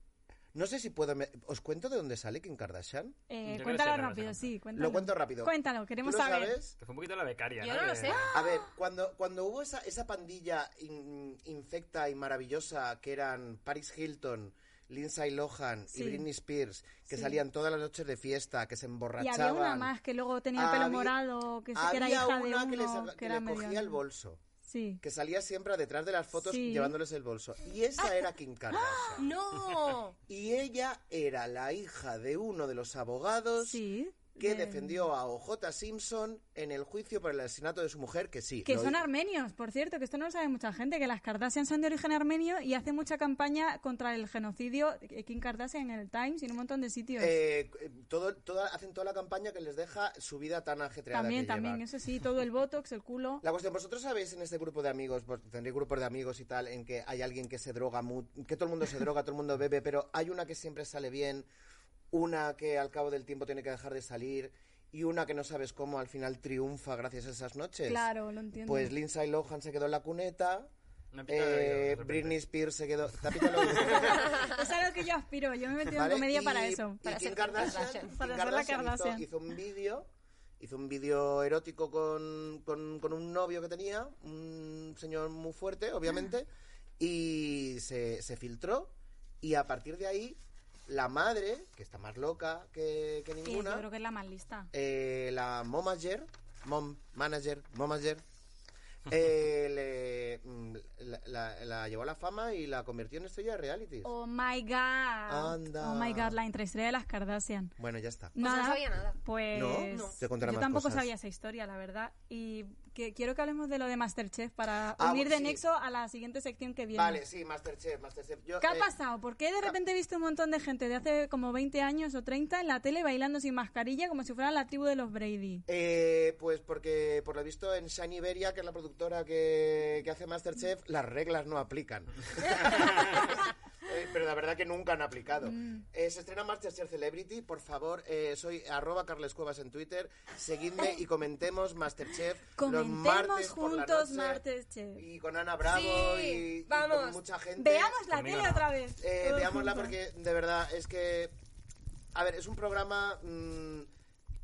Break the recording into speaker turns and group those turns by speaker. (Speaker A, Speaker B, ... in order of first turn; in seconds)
Speaker A: 0.5-3.2, 4.8-6.8, 8.3-19.9, 20.5-21.2, 21.7-24.4, 25.0-29.3, 30.3-33.8, 34.4-39.0, 47.2-51.8, 53.4-61.5, 62.1-68.1, 68.7-70.7, 71.3-74.4, 75.9-86.5, 87.0-93.9, 94.7-98.2, 99.1-104.1, 105.3-106.4, 107.8-108.3, 109.5-111.1, 115.0-115.6, 116.9-118.9, 125.7-144.4, 145.0-148.0, 149.0-151.3, 152.1-153.9
Speaker B: 3.3-6.6, 15.9-16.3, 17.1-17.4, 19.2-24.0, 24.6-25.0, 26.4-26.9, 28.7-29.2, 33.6-35.0, 38.6-47.4, 51.1-53.4, 67.9-68.9, 73.8-77.0, 78.0-79.2, 93.5-94.7, 104.0-107.7, 108.3-117.2, 118.6-125.7, 135.4-135.8, 142.6-145.0, 147.6-149.9
Speaker C: 3.5-4.5, 6.8-8.3, 71.1-72.4, 73.6-74.0, 148.1-148.7
Speaker D: 7.6-8.3, 29.2-30.2, 77.0-78.1, 108.4-109.2, 109.9-110.2, 145.6-147.2